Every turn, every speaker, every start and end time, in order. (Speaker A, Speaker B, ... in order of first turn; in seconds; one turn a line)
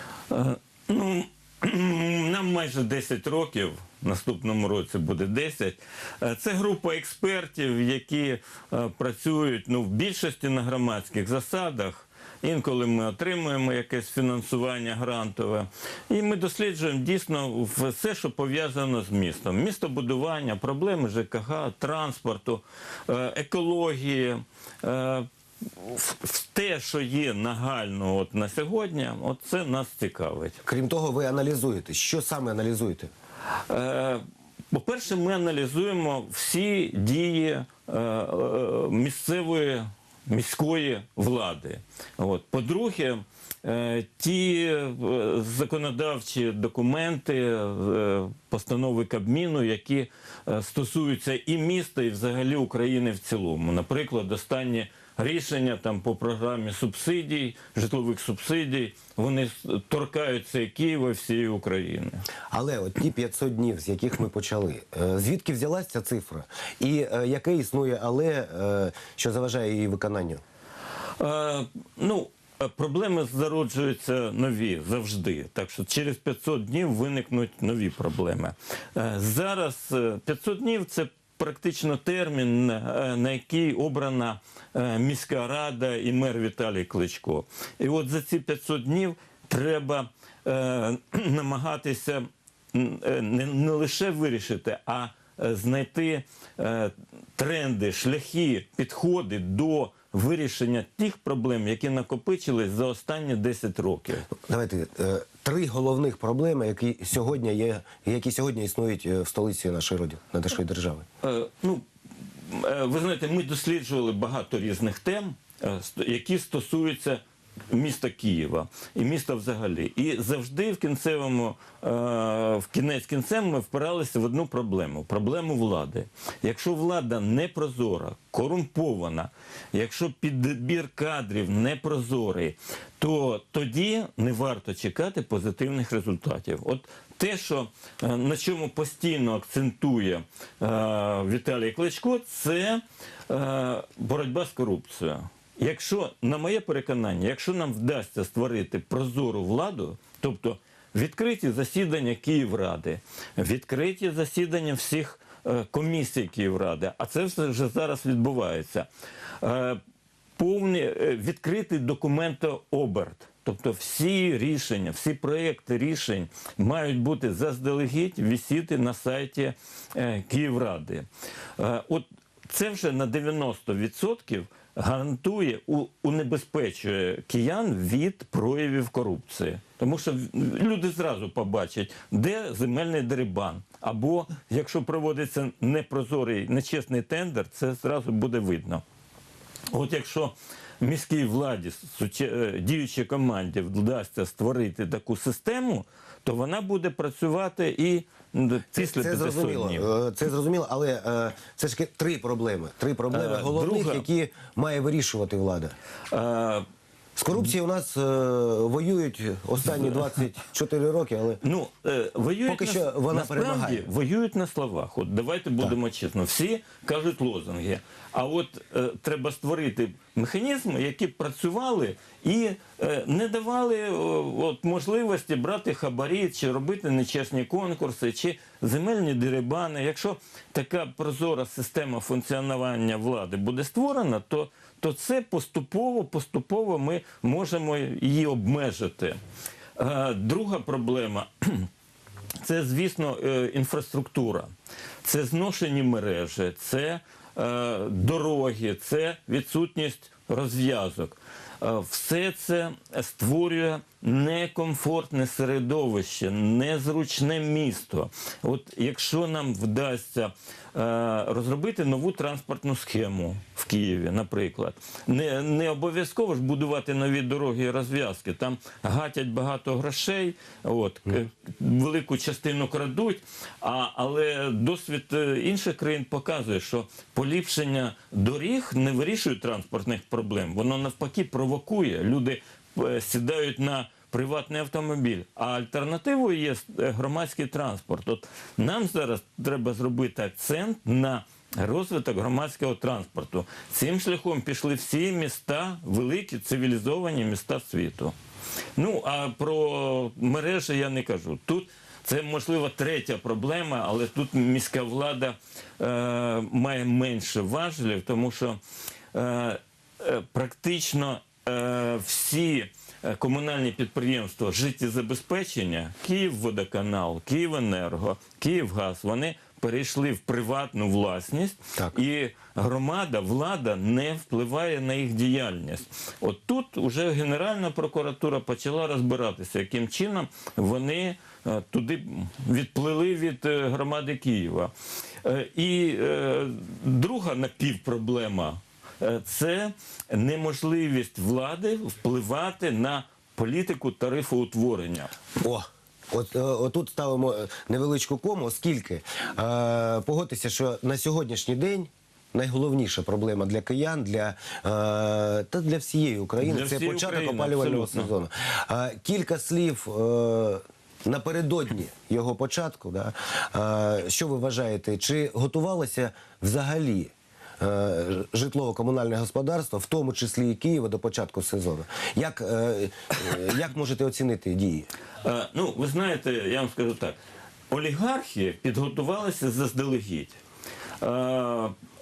Speaker A: 0.3-30.6
Speaker B: 30.6-33.1
Speaker A: 33.7-62.2
Speaker B: 62.5-70.4
Speaker A: 71.2-104.3
Speaker B: 104.4-111.0
Speaker A: 111.2-111.8
Speaker A: 112.5-158.9
Speaker A: 159.4-159.8
Speaker A: 160.4-171.1
Speaker A: 171.6-188.8
Speaker A: 189.7-199.9
Speaker B: 198.7-205.8
Speaker A: 203.1-204.1
Speaker A: 206.1-206.7
Speaker B: 207.2-211.4
Speaker A: 211.4-239.2
Speaker B: 212.5-213.9
Speaker A: 239.8-241.7
Speaker A: 242.4-244.5
Speaker A: 245.0-298.1
Speaker A: 298.8-308.6
Speaker A: 309.1-334.7
Speaker A: 335.2-345.1
Speaker B: 345.4-374.9
Speaker A: 356.4-358.1
Speaker A: 375.2-377.1
Speaker A: 377.7-380.4
Speaker A: 381.0-381.7